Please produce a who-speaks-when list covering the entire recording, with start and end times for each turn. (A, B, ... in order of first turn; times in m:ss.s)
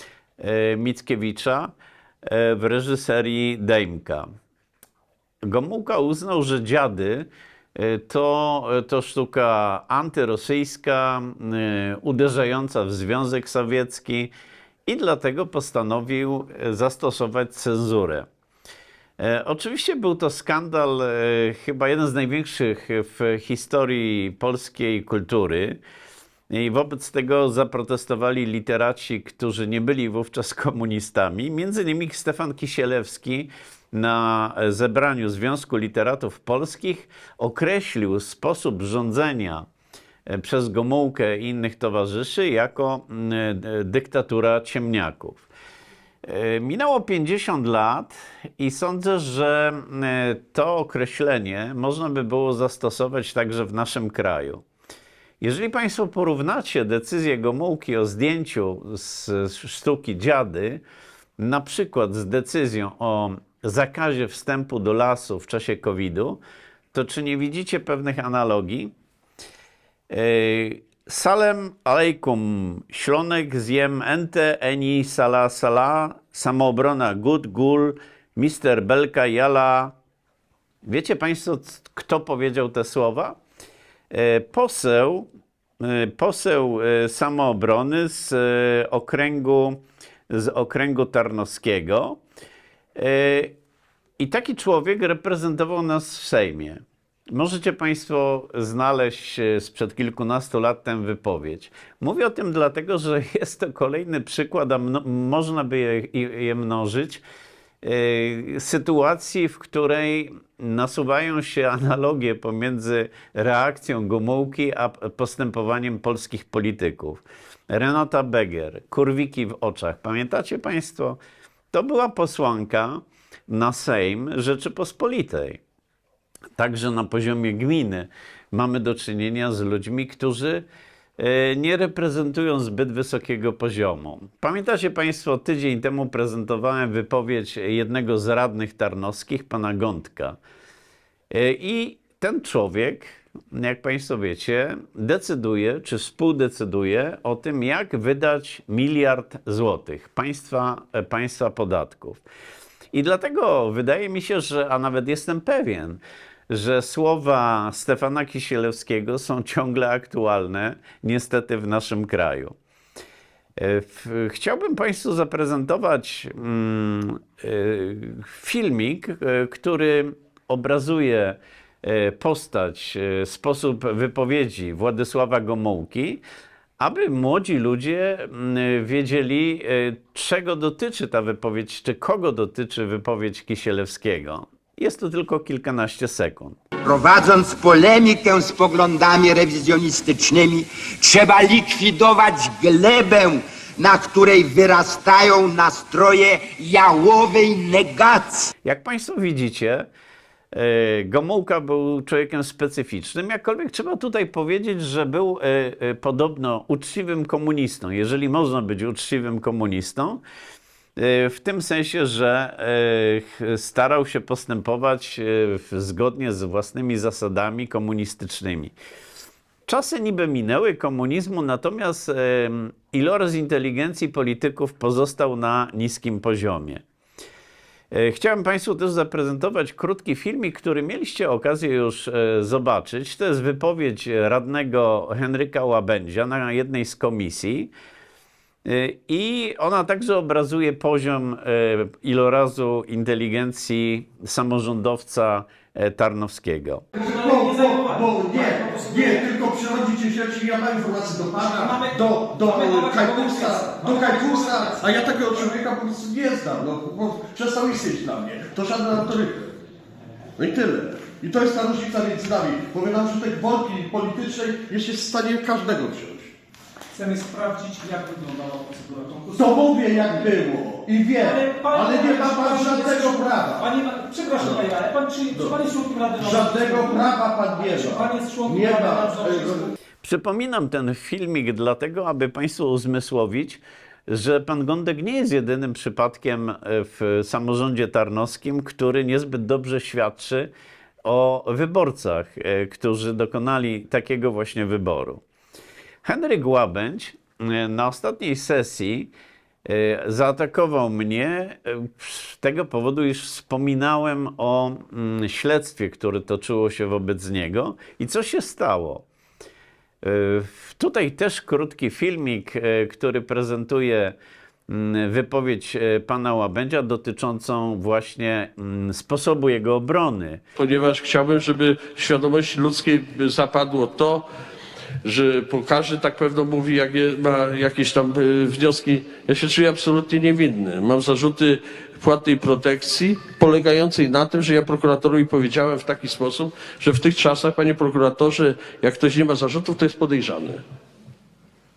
0:00.4-0:01.7 A
0:02.2-0:04.2 A
0:05.4-0:14.3 A
0:14.9-0:18.3 A
0:19.2-0:25.8 A
0:26.5-0:39.6 A
0:40.3-0:45.5 A
0:46.2-0:54.6 A
0:55.4-1:00.8 A
1:01.4-1:06.4 A
1:06.9-1:08.9 A
1:10.1-1:19.9 A
1:20.8-1:23.4 A
1:24.1-1:25.3 A
1:25.8-1:32.2 A
1:33.0-1:33.6 A
1:34.2-1:47.2 A
1:47.8-2:01.2 A
2:01.7-2:05.6 A
2:06.6-2:10.6 A
2:11.2-2:20.4 A
2:21.3-2:32.2 A
2:32.9-2:42.5 A
2:43.6-2:56.2 A
2:56.8-3:06.6 A
3:06.8-3:18.5 B
3:18.6-3:19.9 A
3:20.5-3:30.2 A
3:31.0-3:38.7 A
3:39.7-3:46.8 A
3:47.9-3:57.7 A
3:58.6-4:06.8 A
4:06.9-4:09.3 C
4:07.0-4:19.5 D
4:11.4-4:14.9 C
4:20.4-4:21.2 E
4:20.9-4:25.0 D
4:24.7-4:26.3 E
4:25.7-4:26.1 D
4:26.9-4:30.3 C
4:29.3-4:33.6 D
4:31.2-4:39.7 C
4:34.4-4:34.7 D
4:36.2-4:39.7 D
4:40.0-4:50.5 A
4:51.0-4:55.2 A
4:56.0-4:59.1 A
4:59.6-5:09.0 A
5:10.0-5:14.2 A
5:14.7-5:20.4 A
5:20.6-5:24.2 E
5:25.0-5:40.6 E